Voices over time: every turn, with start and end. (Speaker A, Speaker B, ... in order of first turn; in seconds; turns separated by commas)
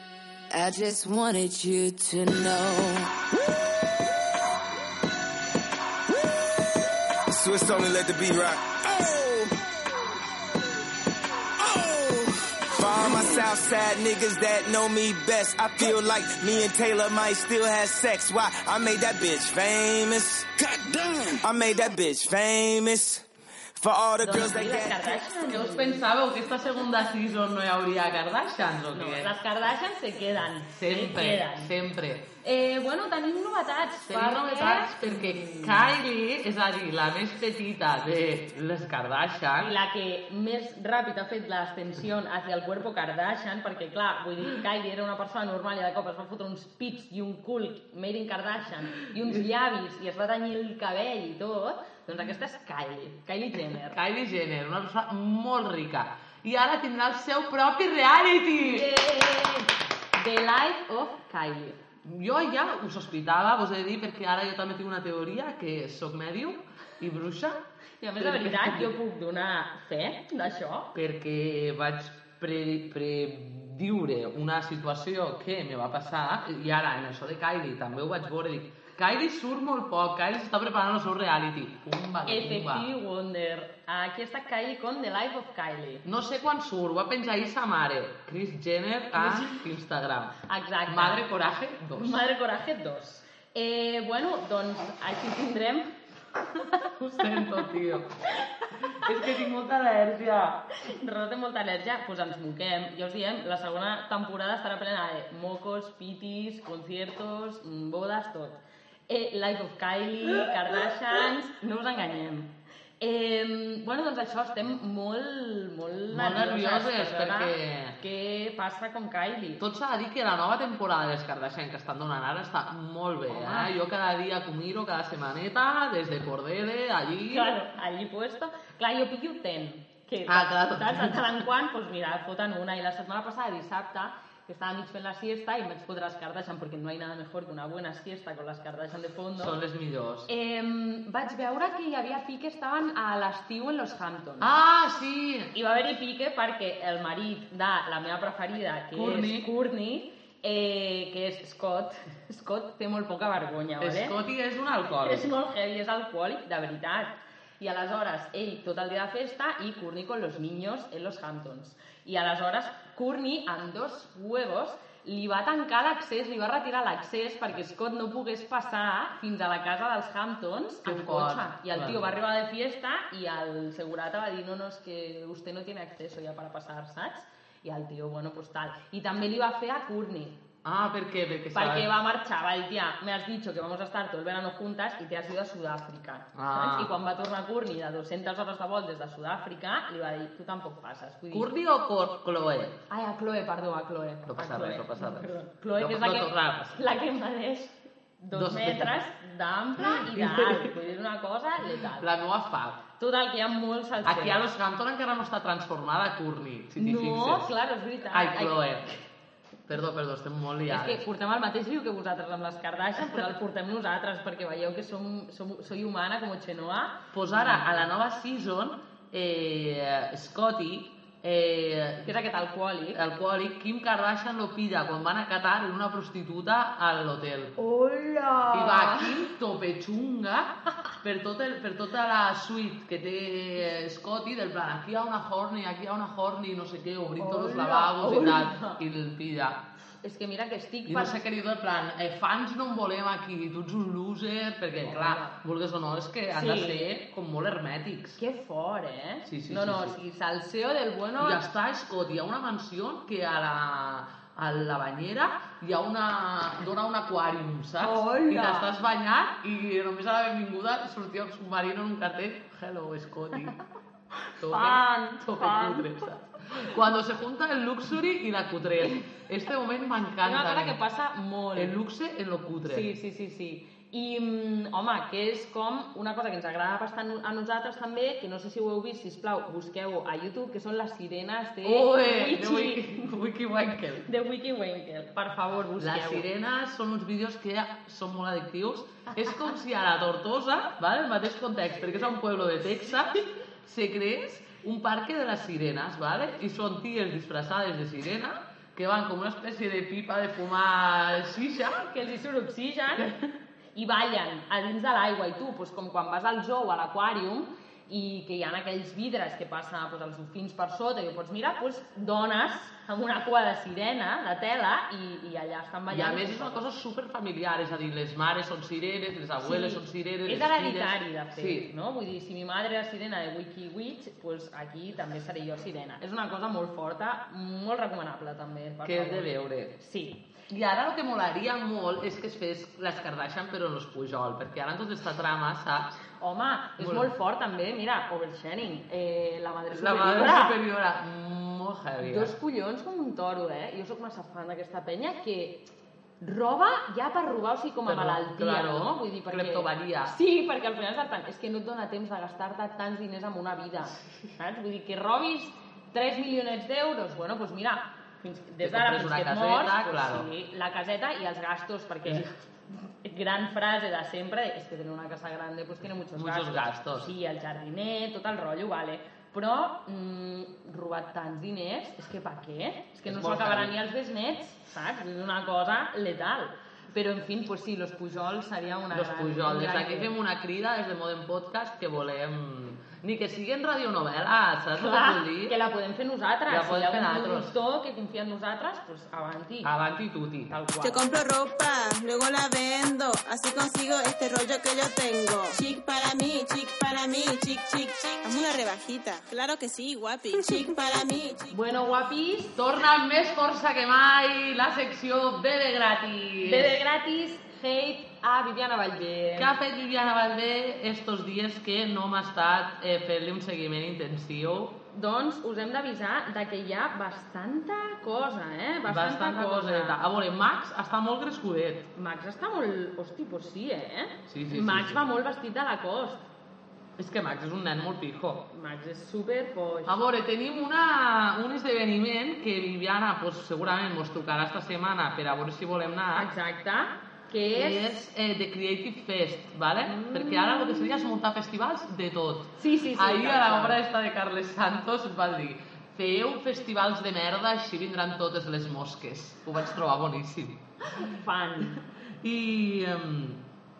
Speaker A: 0.5-3.1, Speaker B: 7.3-9.6, Speaker B: 11.6-23.2, Speaker B: 23.8-25.2, Speaker C: 24.2-26.1, Speaker D: 25.4-29.3, Speaker C: 28.9-31.7, Speaker D: 30.7-32.2, Speaker C: 32.4-35.9, Speaker D: 34.1-39.7, Speaker C: 39.6-54.0, Speaker D: 53.8-58.9, Speaker C: 58.6-61.8, Speaker D: 62.0-67.6, Speaker C: 68.0-70.9, Speaker D: 68.2-68.9, Speaker D: 70.9-82.9, Speaker C: 82.2-86.0, Speaker D: 86.0-92.2, Speaker C: 89.2-89.6, Speaker C: 90.5-91.2, Speaker C: 92.0-95.8, Speaker D: 97.0-98.1, Speaker D: 98.8-100.6, Speaker C: 100.8-119.6, Speaker D: 116.1-118.0, Speaker D: 119.6-127.5, Speaker C: 123.3-123.7, Speaker C: 127.3-139.5, Speaker D: 130.2-131.2, Speaker D: 139.4-140.3, Speaker C: 140.3-144.5, Speaker D: 144.4-145.5, Speaker C: 145.5-154.2, Speaker D: 148.9-149.5, Speaker D: 153.8-155.3, Speaker C: 155.0-180.3, Speaker D: 170.8-172.0, Speaker D: 180.6-181.9, Speaker C: 181.5-191.5, Speaker D: 186.3-186.9, Speaker D: 191.3-192.8, Speaker C: 192.9-202.1, Speaker D: 194.2-196.8, Speaker D: 198.3-199.0, Speaker D: 199.8-200.7, Speaker D: 201.8-202.8, Speaker C: 203.0-204.4, Speaker D: 204.0-207.5, Speaker C: 206.8-208.7, Speaker D: 208.1-208.9, Speaker D: 209.7-211.0, Speaker C: 210.7-217.8, Speaker D: 217.1-222.1, Speaker C: 222.0-223.0, Speaker D: 222.9-227.5, Speaker C: 227.6-229.3, Speaker D: 228.5-230.5, Speaker D: 231.0-239.6, Speaker C: 237.2-238.8, Speaker C: 240.0-241.2, Speaker D: 240.8-248.2, Speaker C: 244.8-245.4, Speaker C: 246.3-246.9, Speaker C: 248.2-251.4, Speaker D: 249.2-249.9, Speaker D: 251.2-263.6, Speaker C: 257.8-258.7, Speaker C: 264.4-266.0, Speaker D: 264.4-270.8, Speaker C: 270.2-271.7, Speaker D: 271.6-272.9, Speaker C: 272.6-283.1, Speaker D: 281.6-284.1, Speaker C: 284.1-286.2, Speaker D: 285.8-301.9, Speaker C: 301.8-303.1, Speaker C: 303.7-316.6, Speaker D: 315.9-321.7, Speaker C: 319.4-330.2, Speaker D: 328.8-329.7, Speaker D: 330.5-335.9, Speaker C: 336.2-340.6, Speaker D: 336.8-337.1, Speaker D: 339.7-342.3, Speaker C: 342.0-345.6, Speaker C: 346.2-362.3, Speaker D: 347.9-350.1, Speaker D: 358.6-360.3, Speaker C: 363.0-380.1, Speaker D: 366.1-367.1, Speaker D: 373.1-373.7, Speaker D: 378.9-385.6, Speaker C: 384.8-389.7, Speaker D: 386.5-387.5, Speaker D: 389.6-390.5, Speaker C: 390.5-391.0, Speaker E: 390.8-401.4, Speaker C: 401.5-402.5, Speaker D: 402.5-406.8, Speaker C: 406.4-409.5, Speaker D: 409.4-414.8, Speaker C: 414.9-420.0, Speaker D: 418.9-421.9, Speaker C: 421.9-426.2, Speaker D: 424.3-425.0, Speaker D: 427.0-428.4, Speaker C: 428.5-430.0, Speaker D: 429.8-436.3, Speaker C: 436.1-437.9, Speaker D: 437.5-450.6, Speaker C: 439.8-441.1, Speaker C: 442.6-443.8, Speaker C: 450.9-451.8, Speaker D: 451.8-453.4